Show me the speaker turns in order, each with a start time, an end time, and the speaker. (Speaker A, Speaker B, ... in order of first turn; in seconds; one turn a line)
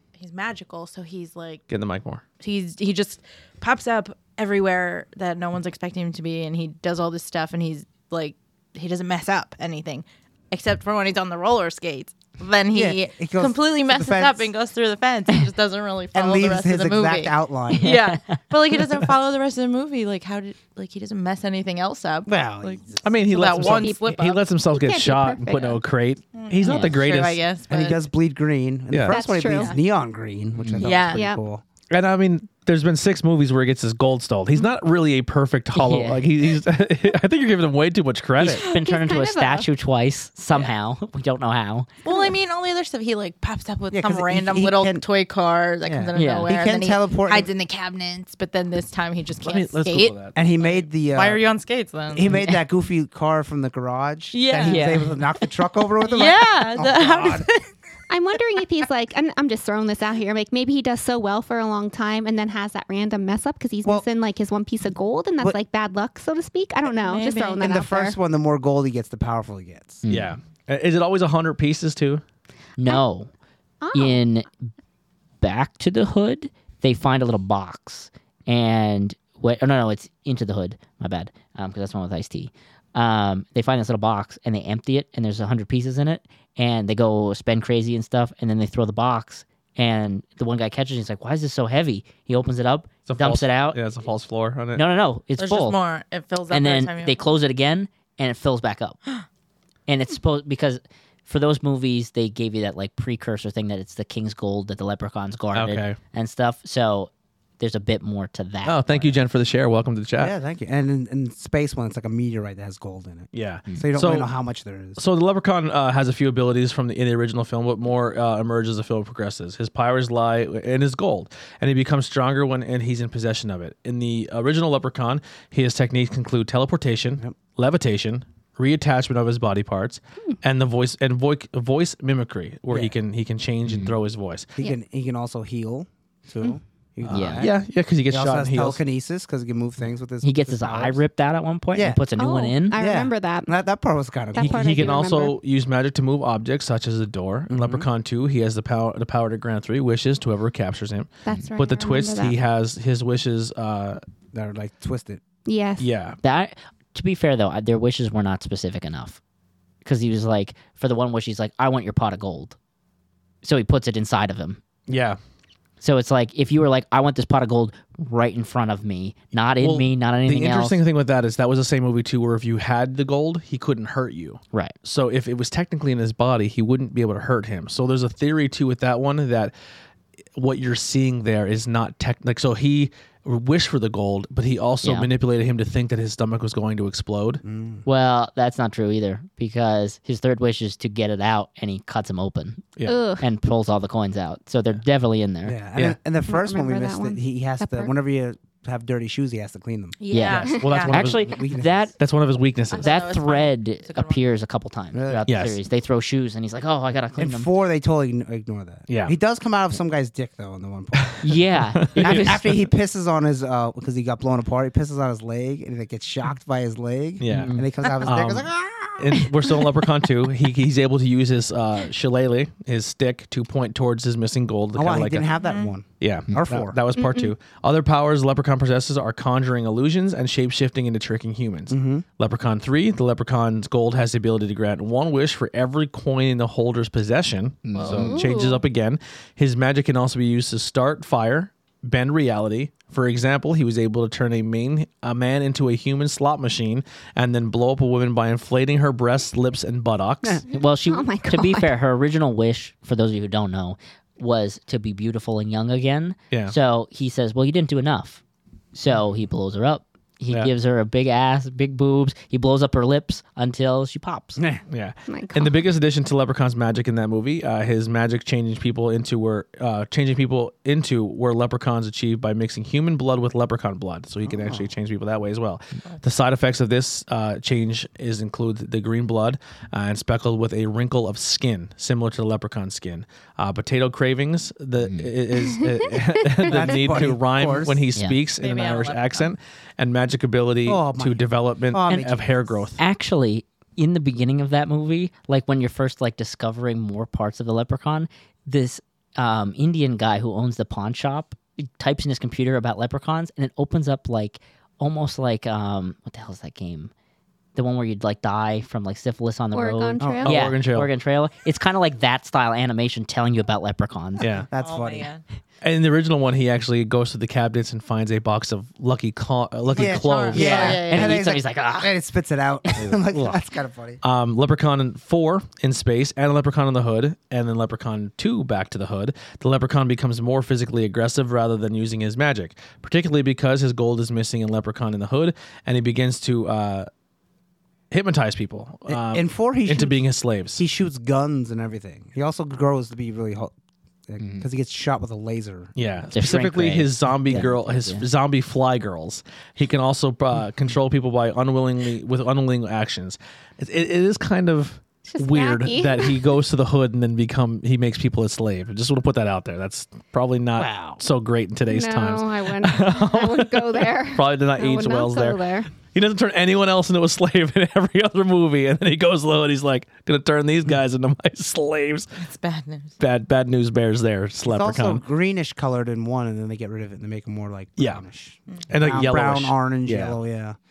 Speaker A: 0.1-1.6
Speaker B: 1.7-2.2
Speaker A: 2.4-24.4
Speaker C: 12.7-14.5
Speaker C: 16.1-18.0
Speaker D: 17.8-18.4
Speaker C: 22.2-23.0
Speaker B: 23.0-27.4
Speaker E: 23.6-24.0
Speaker E: 24.7-25.8
Speaker A: 26.3-28.0
Speaker D: 26.6-27.0
Speaker C: 27.7-31.6
Speaker B: 28.9-29.2
Speaker E: 29.1-29.7
Speaker A: 29.5-29.8
Speaker D: 30.6-30.9
Speaker A: 30.8-31.2
Speaker E: 31.1-31.4
Speaker B: 31.9-38.7
Speaker D: 35.7-36.2
Speaker D: 38.4-41.9
Speaker E: 38.4-39.7
Speaker A: 42.0-52.4
Speaker C: 43.9-45.0
Speaker C: 45.8-47.5
Speaker D: 46.1-46.5
Speaker B: 49.4-50.4
Speaker C: 50.3-51.5
Speaker C: 52.1-57.5
Speaker A: 54.3-55.0
Speaker D: 54.6-55.1
Speaker A: 56.0-57.7
Speaker E: 58.1-68.2
Speaker A: 66.9-67.7
Speaker C: 67.6-70.0
Speaker D: 70.0-70.4
Speaker B: 70.1-72.2
Speaker D: 72.8-73.3
Speaker E: 73.8-74.2
Speaker D: 73.9-74.7
Speaker D: 75.4-93.8
Speaker B: 93.1-94.8
Speaker D: 94.7-95.8
Speaker A: 95.4-97.2
Speaker D: 96.5-99.0
Speaker D: 99.9-109.2
Speaker B: 105.5-106.0
Speaker B: 108.6-110.3
Speaker C: 110.2-115.0
Speaker B: 113.3-114.3
Speaker B: 115.0-134.5
Speaker D: 133.7-133.9
Speaker C: 134.6-137.6
Speaker B: 137.0-138.8
Speaker D: 137.1-137.5
Speaker C: 138.1-141.0
Speaker D: 140.2-142.8
Speaker C: 141.7-142.0
Speaker E: 142.2-143.5
Speaker C: 142.7-145.0
Speaker E: 144.3-145.3
Speaker B: 144.4-154.0
Speaker C: 147.5-147.9
Speaker E: 151.2-152.4
Speaker C: 154.3-155.2
Speaker E: 155.4-155.9
Speaker B: 155.8-156.2
Speaker D: 156.2-159.2
Speaker D: 159.8-162.6
Speaker D: 163.4-164.6
Speaker B: 164.9-165.2
Speaker D: 165.8-170.8
Speaker B: 169.6-179.5
Speaker B: 180.3-187.4
Speaker D: 184.8-185.1
Speaker C: 187.4-187.8
Speaker D: 187.8-195.6
Speaker E: 192.8-193.2
Speaker C: 195.4-200.0
Speaker E: 196.3-197.9
Speaker A: 200.0-201.0
Speaker D: 200.1-201.9
Speaker B: 200.4-201.3
Speaker C: 200.7-201.9
Speaker B: 202.0-202.9
Speaker A: 202.7-204.2
Speaker D: 202.8-207.5
Speaker C: 204.9-205.3
Speaker B: 205.2-205.6
Speaker C: 207.2-211.2
Speaker B: 208.9-209.1
Speaker B: 211.0-211.2
Speaker D: 211.2-212.4
Speaker B: 211.8-212.5
Speaker C: 212.0-219.3
Speaker B: 217.2-225.3
Speaker D: 217.3-217.7
Speaker C: 224.7-226.8
Speaker A: 225.4-225.7
Speaker B: 226.0-250.4
Speaker E: 226.9-227.3
Speaker C: 231.7-232.0
Speaker D: 237.6-238.2
Speaker E: 237.8-238.6
Speaker D: 250.5-258.2
Speaker E: 250.9-251.7
Speaker D: 258.7-264.4
Speaker C: 264.4-264.6
Speaker B: 264.7-292.8
Speaker E: 265.1-265.6
Speaker C: 274.2-274.7
Speaker D: 284.8-285.1
Speaker E: 285.5-286.8
Speaker C: 286.4-287.9
Speaker A: 288.4-289.3
Speaker C: 290.6-292.6
Speaker D: 292.8-306.9
Speaker D: 307.5-314.3
Speaker E: 309.5-310.5
Speaker C: 310.0-310.3
Speaker B: 310.2-310.9
Speaker B: 314.2-314.5
Speaker C: 314.5-315.1
Speaker A: 314.5-315.2
Speaker B: 315.6-320.8
Speaker A: 319.7-321.2
Speaker C: 319.7-324.0
Speaker D: 320.3-321.9
Speaker B: 322.8-323.4
Speaker B: 324.0-336.9
Speaker B: 337.9-340.6
Speaker C: 338.9-340.0
Speaker C: 340.5-343.5
Speaker C: 344.1-345.7
Speaker D: 344.2-344.4
Speaker B: 345.8-372.1
Speaker D: 346.1-348.1
Speaker E: 355.1-356.2
Speaker C: 360.6-361.0
Speaker E: 361.7-365.7
Speaker A: 372.1-372.9
Speaker B: 373.0-375.0
Speaker C: 374.4-380.6
Speaker B: 378.7-380.2